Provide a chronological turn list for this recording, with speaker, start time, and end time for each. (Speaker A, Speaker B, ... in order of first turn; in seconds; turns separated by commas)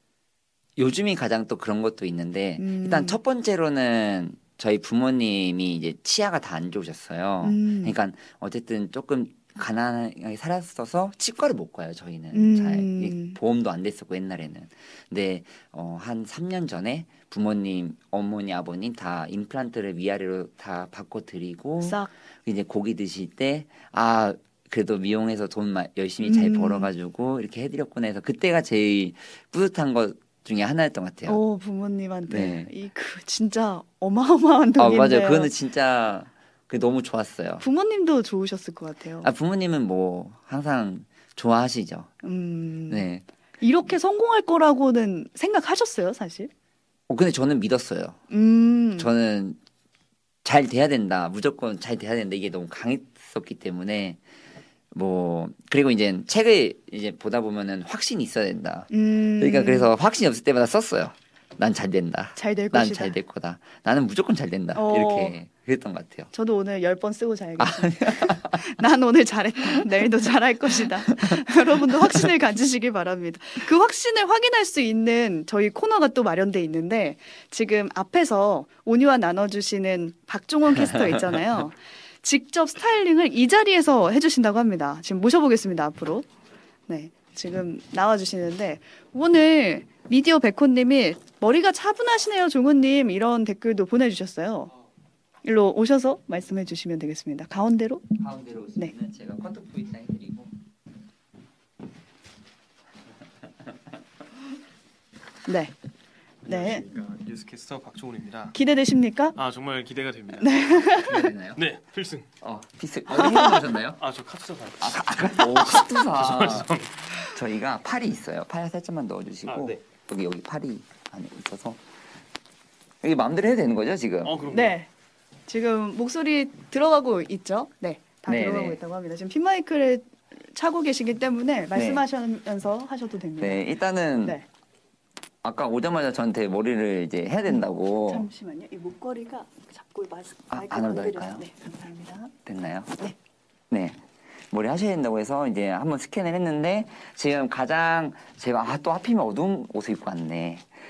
Speaker A: 0.8-31.4, Speaker B: 2.6-3.2, Speaker B: 7.4-7.9, Speaker B: 12.3-13.4, Speaker B: 21.8-22.1, Speaker B: 26.2-26.9, Speaker B: 31.3-35.5, Speaker A: 32.3-32.7, Speaker A: 34.8-37.6, Speaker B: 37.6-39.3, Speaker A: 39.2-42.1, Speaker B: 42.2-43.1, Speaker A: 42.9-43.2, Speaker B: 43.6-46.5, Speaker A: 47.1-48.2, Speaker B: 48.3-49.1, Speaker A: 49.0-49.6, Speaker A: 50.4-54.2, Speaker A: 54.9-66.3, Speaker B: 58.9-59.9, Speaker B: 62.4-63.1, Speaker B: 64.7-65.4, Speaker B: 66.3-86.3, Speaker A: 67.6-68.6, Speaker A: 70.8-72.2, Speaker A: 80.8-81.4, Speaker B: 86.9-94.7, Speaker B: 95.4-98.0, Speaker A: 98.2-100.5, Speaker B: 105.5-105.7, Speaker C: 106.5-108.6, Speaker B: 106.5-106.8, Speaker B: 108.5-109.4, Speaker C: 109.4-112.3, Speaker B: 110.4-111.3, Speaker A: 111.0-111.6, Speaker A: 112.4-114.0, Speaker B: 113.2-113.6, Speaker C: 114.0-117.2, Speaker A: 114.8-121.8, Speaker C: 119.5-119.8, Speaker A: 123.0-124.4, Speaker C: 124.2-124.8, Speaker B: 124.5-124.9, Speaker B: 125.5-133.7, Speaker A: 128.3-128.8, Speaker A: 131.7-132.0, Speaker A: 133.4-134.4, Speaker A: 135.4-138.3, Speaker B: 137.5-142.3, Speaker A: 140.5-141.5, Speaker A: 142.4-143.0, Speaker A: 143.7-144.0, Speaker A: 144.5-150.7